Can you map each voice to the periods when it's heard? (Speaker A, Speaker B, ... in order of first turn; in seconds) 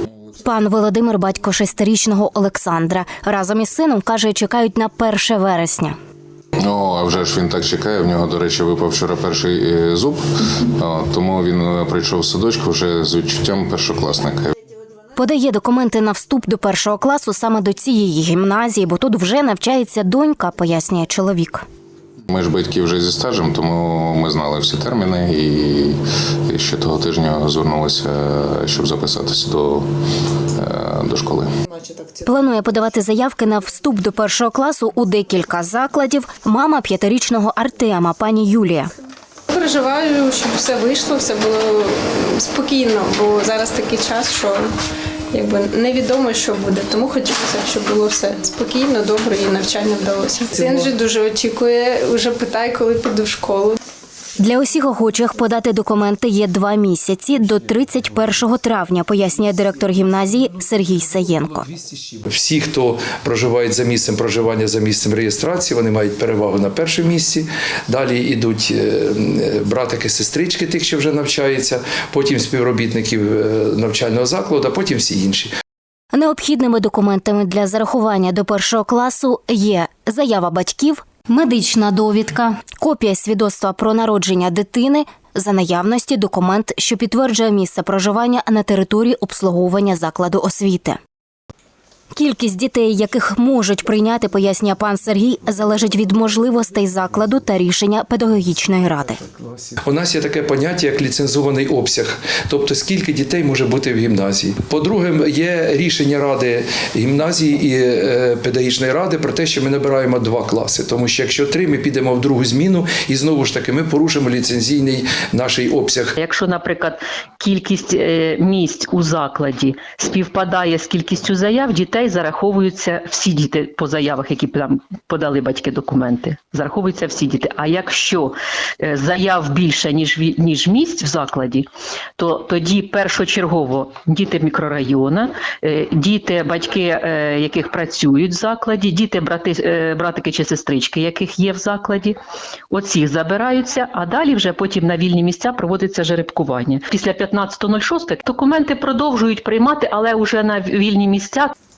Speaker A: 0.4-6.0, 15.2-21.6, 32.2-38.9, 54.4-61.7, 76.1-91.0, 92.1-99.2
Speaker B: 6.6-14.5, 22.3-29.9, 30.5-31.5
Speaker C: 39.5-44.6, 45.3-53.8
Speaker D: 61.8-75.5, 99.6-116.1
Speaker E: 116.2-142.2, 142.7-151.5